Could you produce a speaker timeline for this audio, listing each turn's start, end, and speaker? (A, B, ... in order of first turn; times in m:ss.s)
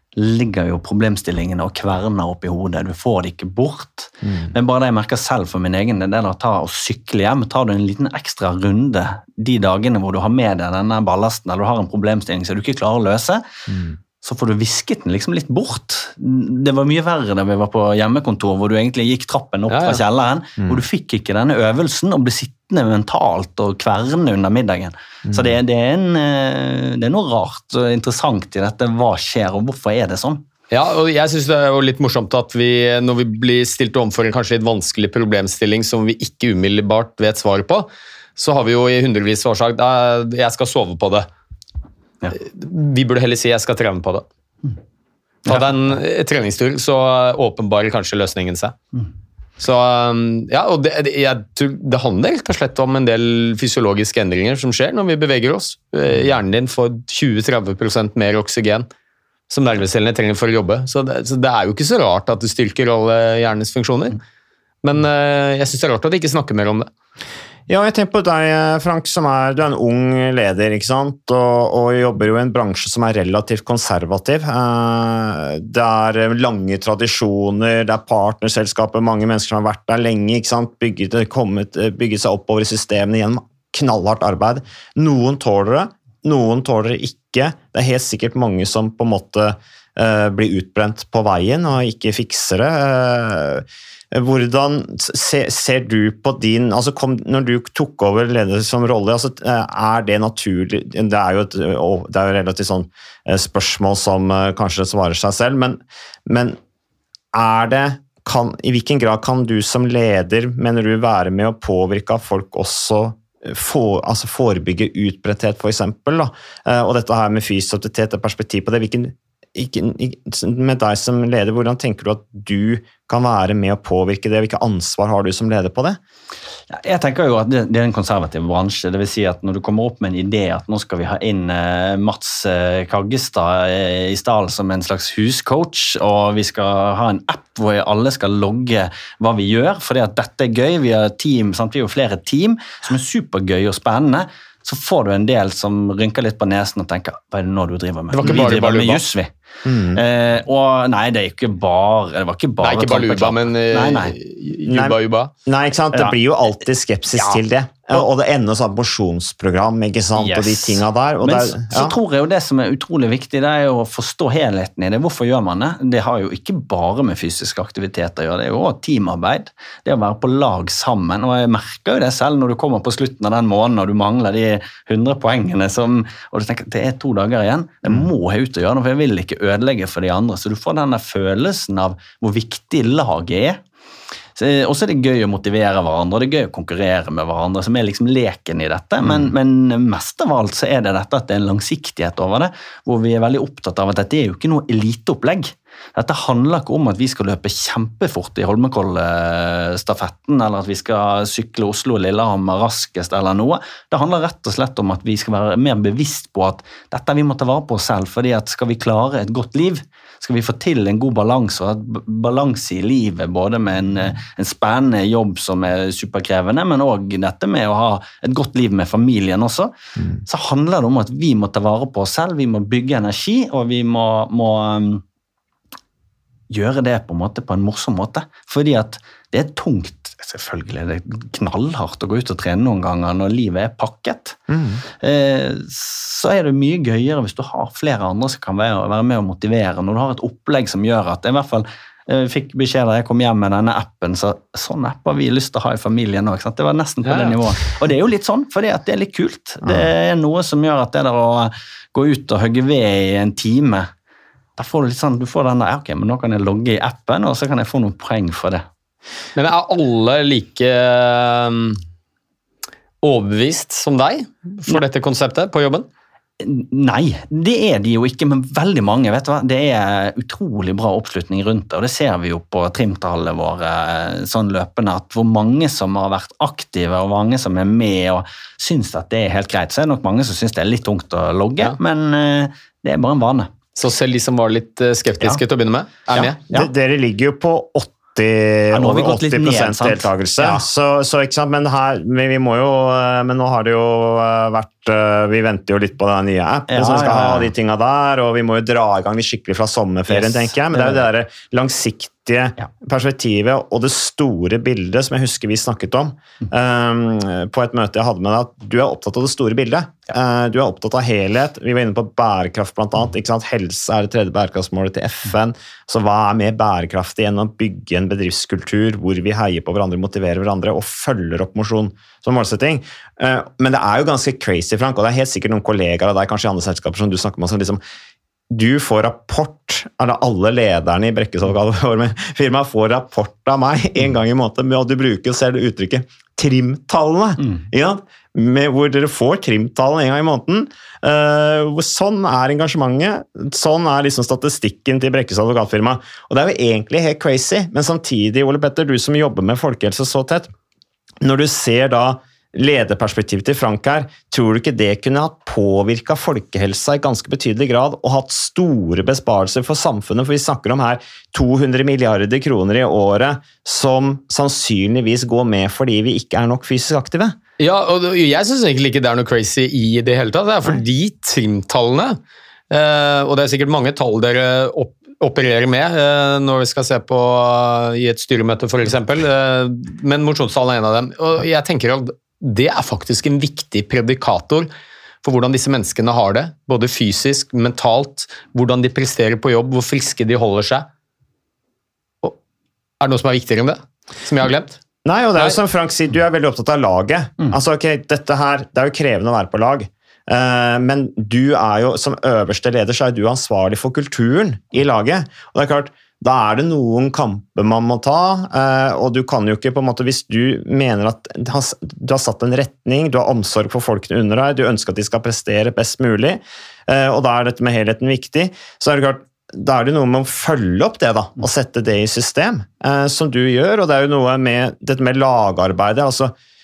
0:00.2-0:13.4 A
0:14.2-0:30.4 A
0:19.7-0:20.0 B
0:30.7-0:41.3 B
0:42.3-0:44.2 B
0:45.5-0:48.8 B
0:49.6-0:58.9 B
0:59.5-1:04.2 B
1:04.8-1:06.9 B
1:07.7-1:46.6 C
1:47.3-2:06.0 C
2:06.7-2:29.3 A
2:28.1-2:29.0 B
2:29.6-2:30.0 C
2:29.9-2:34.2 A
2:32.6-2:35.3 B
2:34.7-2:42.0 C
2:37.2-2:37.4 A
2:40.2-3:03.6 A
3:04.4-3:39.7 A
3:40.2-3:45.0 A
3:46.5-3:54.4 A
3:54.5-3:54.8 C
3:55.0-4:13.9 A
4:07.1-4:07.4 B
4:14.6-4:18.7 A
4:19.4-4:21.8 B
4:23.0-4:25.9 B
4:26.4-4:43.5 A
4:43.8-4:46.4 B
4:46.1-4:46.7 A
4:46.2-5:27.8 C
4:48.7-4:50.6 A
4:56.7-4:57.5 A
5:00.1-5:01.0 A
5:28.5-5:50.5 C
5:51.2-6:07.4 C
6:07.6-6:12.2 B
6:12.7-6:24.7 B
6:25.2-6:30.9 B
6:33.0-6:34.8 B
6:35.0-7:06.3 C